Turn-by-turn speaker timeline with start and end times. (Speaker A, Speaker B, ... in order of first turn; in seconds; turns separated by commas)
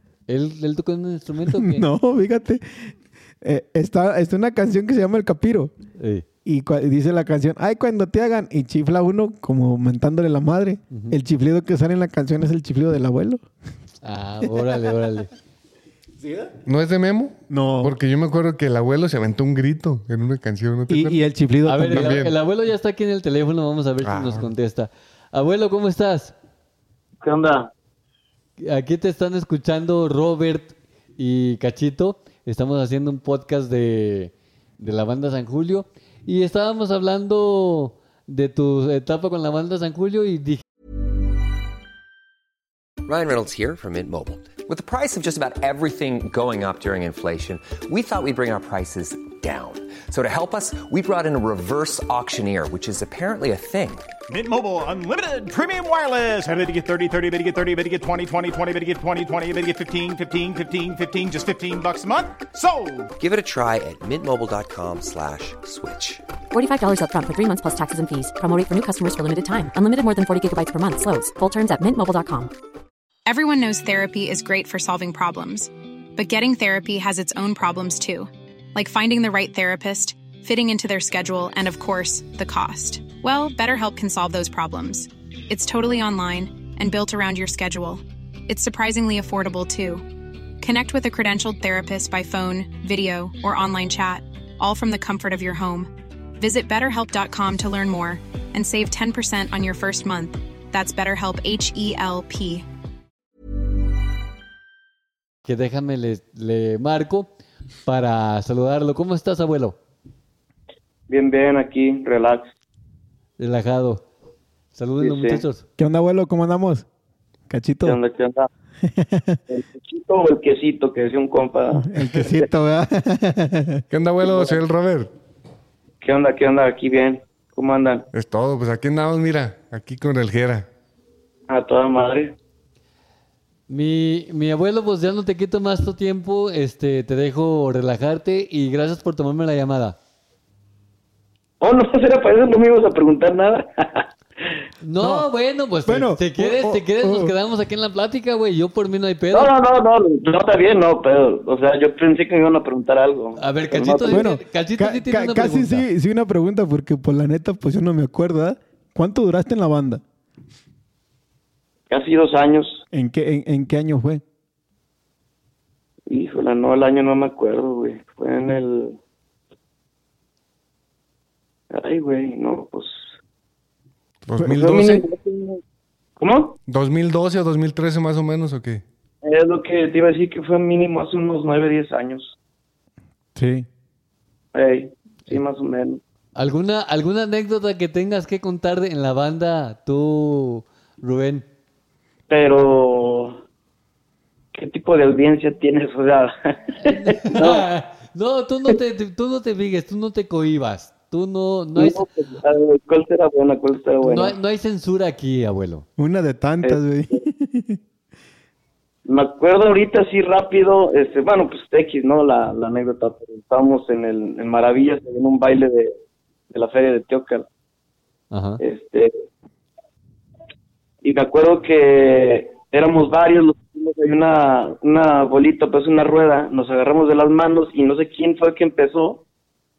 Speaker A: 0.3-1.9, Speaker B: 1.4-5.7, Speaker A: 6.0-6.2, Speaker B: 6.4-13.4, Speaker A: 10.9-11.2, Speaker A: 14.0-15.3, Speaker B: 16.2-16.5, Speaker C: 16.6-21.2, Speaker B: 17.5-17.9, Speaker B: 20.9-22.2, Speaker A: 21.6-26.3, Speaker C: 21.9-22.3, Speaker C: 24.0-24.5, Speaker D: 27.2-27.7, Speaker A: 28.6-40.6, Speaker E: 43.0-54.0, Speaker F: 54.3-63.1, Speaker E: 63.2-66.2, Speaker G: 66.5-72.5, Speaker H: 73.2-90.0, Speaker H: 90.6-102.6, Speaker A: 105.4-107.3, Speaker A: 107.8-109.8, Speaker D: 111.1-112.5, Speaker A: 113.4-114.0, Speaker A: 114.7-115.6, Speaker D: 115.0-115.4, Speaker B: 115.8-116.8, Speaker B: 117.5-118.0, Speaker D: 117.8-118.5, Speaker B: 118.8-119.4, Speaker D: 119.5-122.4, Speaker B: 121.7-123.8, Speaker C: 123.9-125.1, Speaker D: 124.2-124.5, Speaker D: 126.0-128.1, Speaker C: 128.1-130.7, Speaker D: 131.5-132.3, Speaker A: 133.7-140.0, Speaker D: 141.6-144.1, Speaker A: 144.8-149.5, Speaker B: 145.0-145.3, Speaker B: 145.8-147.3, Speaker D: 149.3-154.3, Speaker A: 153.4-155.8, Speaker B: 154.1-160.0, Speaker D: 161.9-162.8, Speaker B: 162.9-164.2, Speaker D: 166.1-169.0, Speaker D: 171.7-173.1, Speaker C: 174.2-175.0, Speaker D: 174.4-175.6, Speaker D: 176.2-176.6, Speaker C: 176.7-178.8, Speaker D: 179.2-182.3, Speaker B: 183.3-183.7, Speaker D: 184.5-186.0, Speaker A: 186.3-191.4, Speaker D: 192.3-193.4, Speaker D: 194.5-197.7, Speaker A: 196.8-202.0, Speaker D: 201.8-204.3, Speaker A: 204.0-205.8, Speaker B: 206.0-207.8, Speaker D: 206.6-207.2, Speaker D: 209.1-215.9, Speaker D: 216.5-217.5, Speaker A: 218.3-218.6, Speaker D: 218.6-219.1, Speaker D: 221.0-229.2